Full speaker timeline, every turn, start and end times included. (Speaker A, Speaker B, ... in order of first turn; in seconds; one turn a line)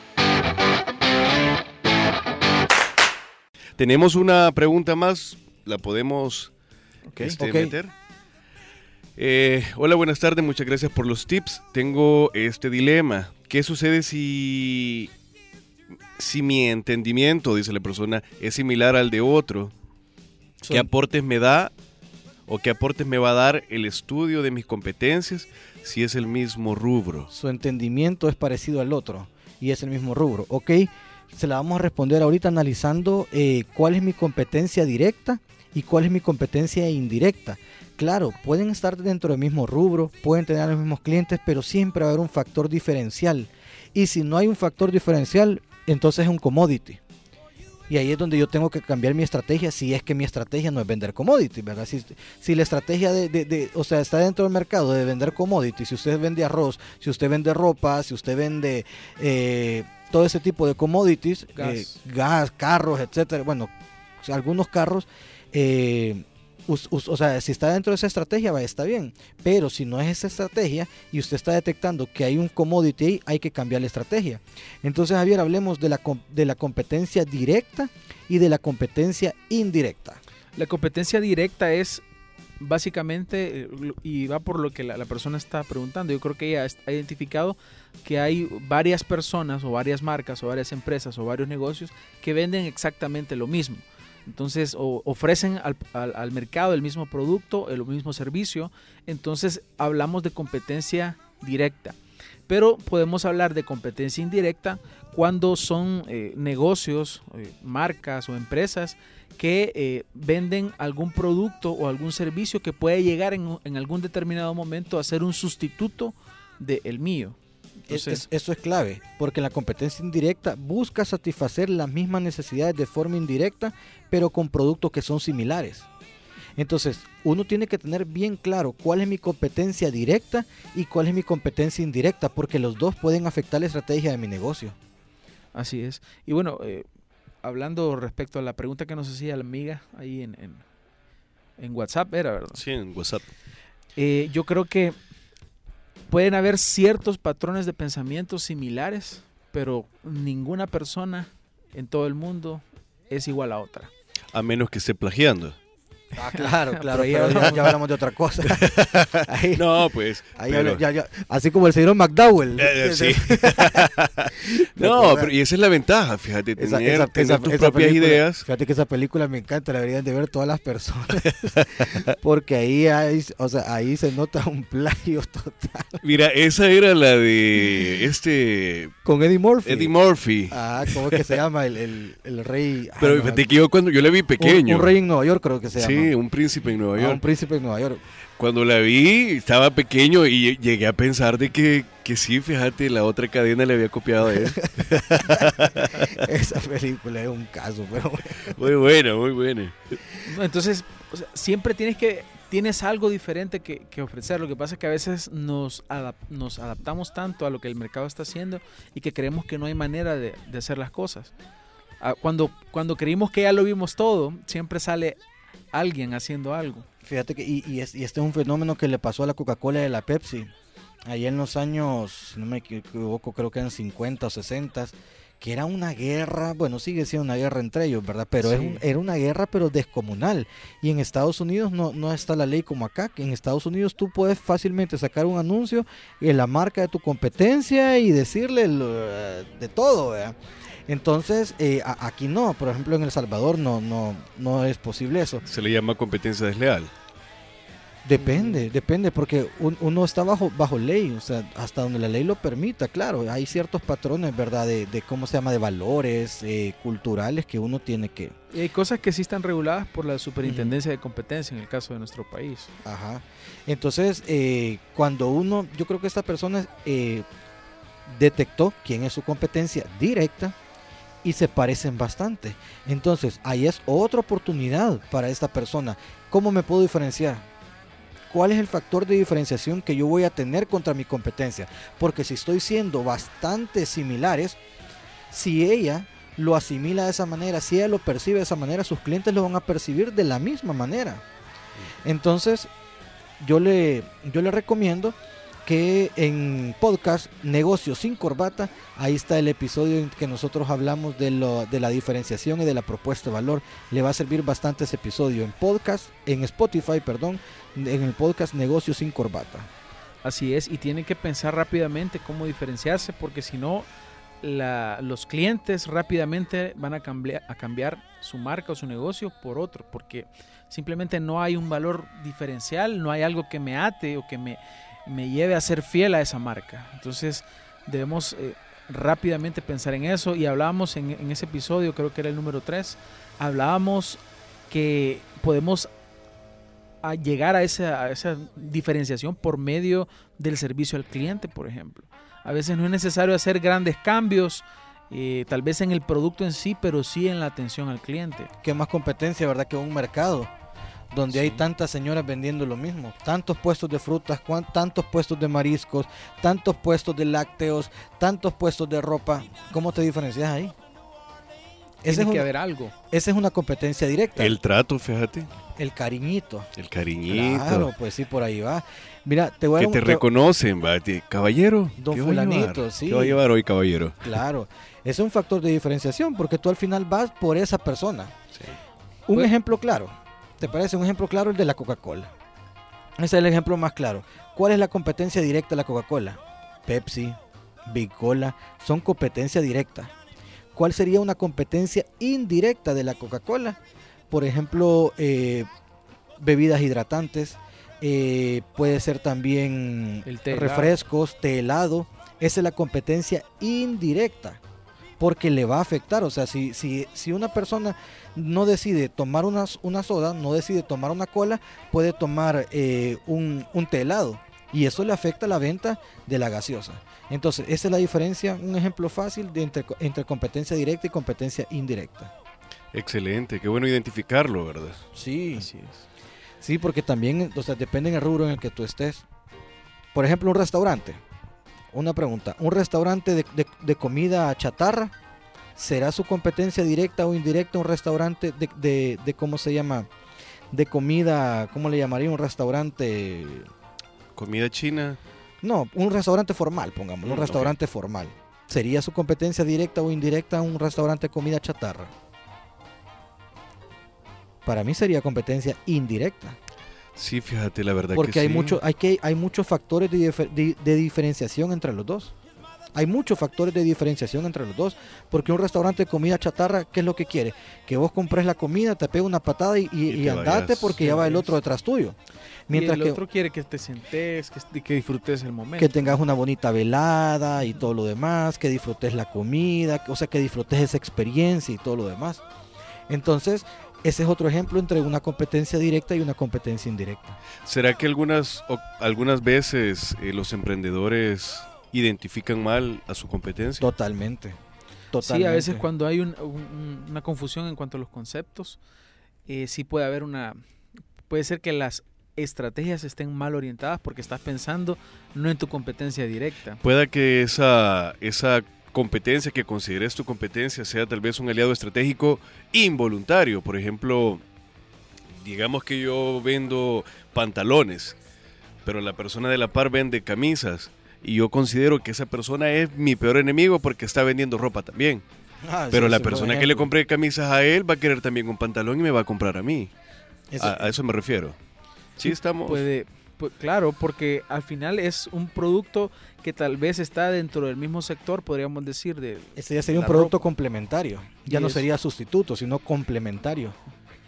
Speaker A: 3.8-6.5
Speaker B: 7.1-7.4
Speaker A: 7.2-7.9
Speaker C: 7.4-7.7
Speaker A: 9.2-15.1
Speaker A: 16.2-19.7
Speaker C: 20.6-20.9
Speaker A: 20.7-21.7
Speaker A: 22.5-27.3
Speaker C: 27.3-47.0
Speaker C: 47.9-80.2
Speaker B: 61.6-62.0
Speaker B: 80.6-82.0
Speaker B: 82.6-118.3
Speaker C: 117.9-125.9
Speaker C: 126.6-134.8
Speaker B: 135.5-136.8
Speaker B: 137.4-140.7
Speaker B: 141.6-142.6
Speaker A: 142.6-143.3
Speaker B: 143.9-144.9
Speaker B: 146.1-153.9
Speaker A: 154.3-155.6
Speaker C: 156.1-159.8
Speaker B: 156.2-157.8
Speaker A: 158.4-160.8
Speaker C: 160.4-165.3
Speaker A: 162.6-168.4
Speaker C: 166.6-176.0
Speaker A: 171.4-172.1
Speaker A: 176.0-178.9
Speaker C: 179.1-179.9
Speaker A: 179.6-181.4
Speaker C: 180.5-183.5
Speaker A: 183.0-184.9
Speaker C: 184.4-186.1
Speaker A: 185.8-187.2
Speaker C: 186.9-188.0
Speaker A: 188.4-196.1
Speaker C: 194.6-198.6
Speaker A: 198.4-200.0
Speaker B: 200.2-211.3
Speaker B: 212.0-215.2
Speaker B: 215.7-216.9
Speaker C: 217.0-220.5
Speaker C: 221.1-245.4
Speaker B: 228.4-228.8
Speaker A: 245.4-246.9
Speaker C: 248.0-258.3
Speaker B: 248.2-248.6
Speaker B: 258.5-262.7
Speaker C: 260.4-260.7
Speaker C: 262.8-267.3
Speaker C: 268.1-270.6
Speaker C: 271.2-277.4
Speaker C: 278.3-284.6
Speaker C: 285.3-291.2
Speaker C: 292.0-292.7
Speaker C: 293.4-309.7
Speaker B: 310.2-313.9
Speaker B: 314.4-335.9
Speaker B: 337.0-348.5
Speaker C: 348.6-350.5
Speaker C: 351.1-360.8
Speaker B: 351.3-351.6
Speaker C: 362.0-362.5
Speaker B: 362.1-362.9
Speaker C: 363.1-364.6
Speaker A: 364.4-365.5
Speaker C: 365.8-366.7
Speaker A: 366.8-367.9
Speaker C: 367.3-370.2
Speaker A: 369.8-374.4
Speaker C: 372.0-373.4
Speaker C: 374.2-378.3
Speaker C: 379.3-382.3
Speaker C: 383.2-390.1
Speaker C: 390.7-393.8
Speaker C: 394.3-395.7
Speaker C: 396.4-404.6
Speaker B: 400.2-401.0
Speaker C: 405.2-422.3
Speaker A: 422.9-425.0
Speaker C: 425.1-425.7
Speaker B: 425.6-426.0
Speaker C: 426.6-429.2
Speaker C: 430.1-431.2
Speaker C: 431.9-435.1
Speaker C: 435.8-440.1
Speaker C: 440.7-443.7
Speaker A: 444.3-445.2
Speaker C: 445.6-452.1
Speaker A: 447.2-447.7
Speaker C: 454.6-456.6
Speaker A: 457.1-458.8
Speaker C: 458.1-462.3
Speaker C: 462.9-473.2
Speaker A: 470.1-471.1
Speaker B: 471.0-471.5
Speaker B: 472.7-476.2
Speaker C: 475.8-482.4
Speaker C: 483.1-487.4
Speaker A: 487.6-493.9
Speaker C: 493.8-494.6
Speaker C: 495.1-495.9
Speaker B: 495.2-498.8
Speaker B: 499.5-500.6
Speaker B: 501.3-506.8
Speaker A: 506.8-514.4
Speaker A: 515.4-518.1
Speaker A: 518.9-525.2
Speaker C: 525.6-526.9
Speaker A: 525.9-529.9
Speaker C: 530.5-530.9
Speaker A: 530.6-531.5
Speaker A: 532.2-532.9
Speaker B: 532.2-540.4
Speaker C: 539.6-543.8
Speaker B: 541.5-541.9